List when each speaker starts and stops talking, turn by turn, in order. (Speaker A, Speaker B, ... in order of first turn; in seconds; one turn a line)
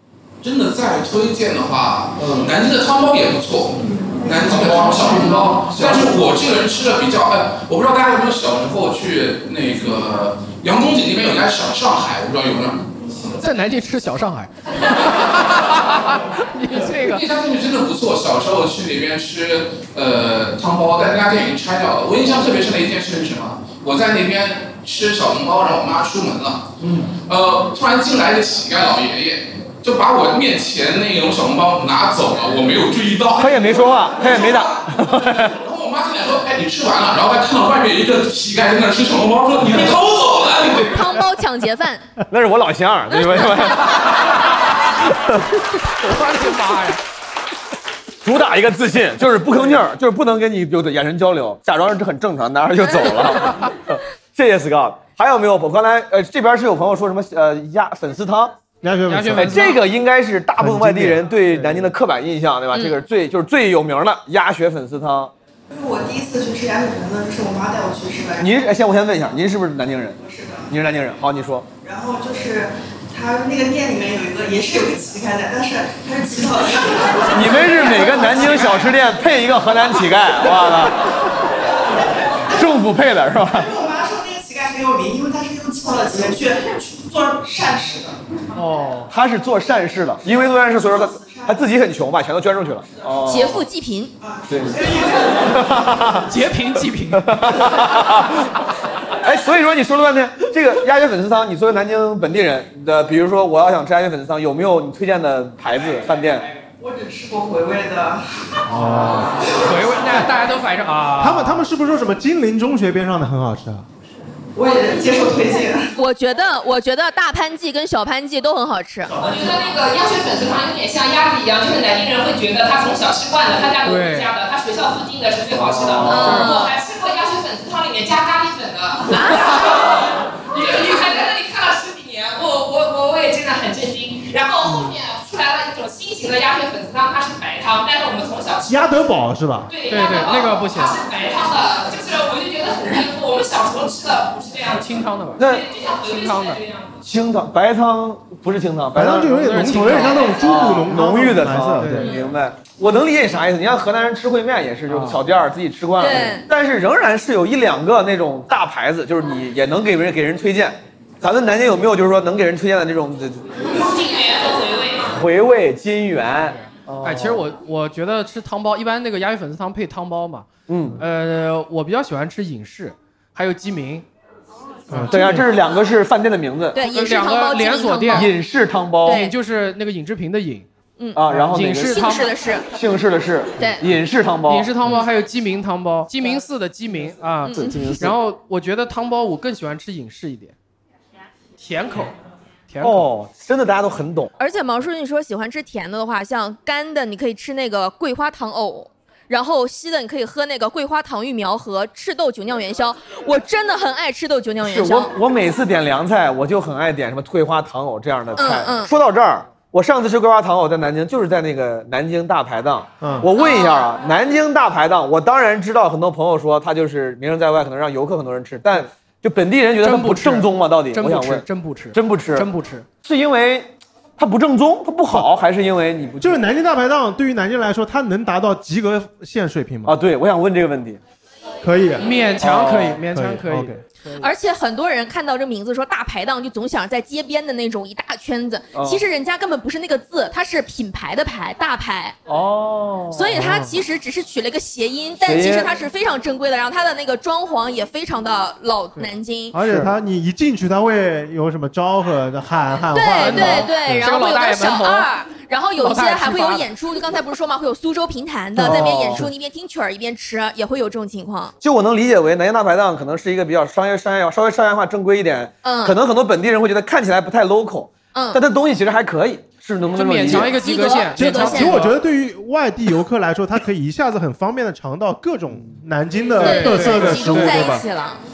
Speaker A: 0.4-13.3
Speaker B: 2.2-2.5
Speaker B: 4.5-6.2
Speaker C: 13.4-17.2
Speaker A: 17.1-41.1
Speaker B: 26.8-27.1
Speaker B: 33.4-35.5
Speaker D: 40.9-42.1
Speaker B: 42.3-44.1
Speaker C: 46.0-47.0
Speaker B: 48.2-58.5
Speaker E: 58.8-59.8
Speaker C: 59.1-59.8
Speaker B: 59.4-65.3
Speaker E: 60.6-61.8
Speaker D: 62.7-63.0
Speaker F: 65.7-68.6
Speaker B: 68.4-71.7
Speaker F: 70.2-70.8
Speaker F: 71.8-78.9
Speaker B: 77.3-81.1
Speaker B: 82.5-83.7
Speaker F: 83.5-88.2
Speaker C: 88.5-89.1
Speaker B: 89.1-93.6
Speaker F: 90.2-91.6
Speaker D: 93.2-94.1
Speaker F: 94.2-95.7
Speaker B: 94.5-96.3
Speaker C: 96.2-97.8
Speaker B: 97.1-98.5
Speaker B: 99.2-106.5
Speaker F: 106.7-108.2
Speaker C: 108.7-111.6
Speaker E: 108.8-109.3
Speaker E: 111.2-113.8
Speaker F: 114.5-115.9
Speaker D: 116.0-119.1
Speaker G: 119.2-139.1
Speaker C: 123.8-124.3
Speaker B: 125.5-126.3
Speaker C: 126.0-126.5
Speaker D: 126.1-126.8
Speaker D: 129.1-129.6
Speaker E: 138.7-139.7
Speaker G: 139.7-147.0
Speaker C: 139.9-141.0
Speaker C: 144.7-145.5
Speaker B: 145.4-145.6
Speaker C: 146.0-146.6
Speaker B: 147.0-163.5
Speaker E: 148.9-152.1
Speaker C: 149.3-150.4
Speaker G: 150.1-150.4
Speaker C: 151.8-152.1
Speaker D: 152.0-152.3
Speaker C: 154.9-155.2
Speaker D: 156.0-156.4
Speaker G: 163.6-165.1
Speaker B: 165.1-167.4
Speaker C: 167.0-174.1
Speaker B: 170.7-171.0
Speaker C: 174.9-175.4
Speaker E: 174.9-175.4
Speaker B: 175.1-176.8
Speaker D: 176.7-178.3
Speaker C: 176.8-178.3
Speaker B: 178.1-179.2
Speaker D: 179.0-179.3
Speaker C: 179.0-180.7
Speaker D: 181.0-181.2
Speaker B: 181.2-182.1
Speaker C: 181.3-182.3
Speaker D: 181.8-182.7
Speaker B: 182.7-184.7
Speaker D: 183.6-183.8
Speaker C: 184.5-190.5
Speaker D: 187.4-187.8
Speaker B: 187.6-188.2
Speaker C: 191.6-192.1
Speaker C: 192.7-193.1
Speaker B: 192.8-194.3
Speaker D: 194.4-205.1
Speaker B: 204.6-222.5
Speaker D: 208.3-208.9
Speaker E: 213.0-213.3
Speaker D: 213.3-213.9
Speaker C: 219.8-222.9
Speaker B: 223.0-226.4
Speaker E: 226.2-229.9
Speaker B: 229.8-231.0
Speaker E: 231.6-232.1
Speaker C: 232.0-234.3
Speaker B: 232.4-233.0
Speaker E: 233.0-233.8
Speaker D: 234.2-242.2
Speaker B: 238.7-239.0
Speaker B: 242.3-243.4
Speaker D: 243.1-249.6
Speaker E: 243.3-243.8
Speaker B: 245.2-245.7
Speaker E: 249.5-254.0
Speaker B: 249.6-249.9
Speaker D: 252.9-261.5
Speaker C: 253.1-255.1
Speaker C: 255.8-256.7
Speaker E: 258.6-259.2
Speaker B: 258.6-259.3
Speaker B: 261.6-270.6
Speaker D: 265.6-266.0
Speaker D: 268.1-268.4
Speaker C: 269.9-271.9
Speaker D: 270.4-271.8
Speaker E: 271.1-277.9
Speaker C: 276.4-277.6
Speaker D: 276.4-278.1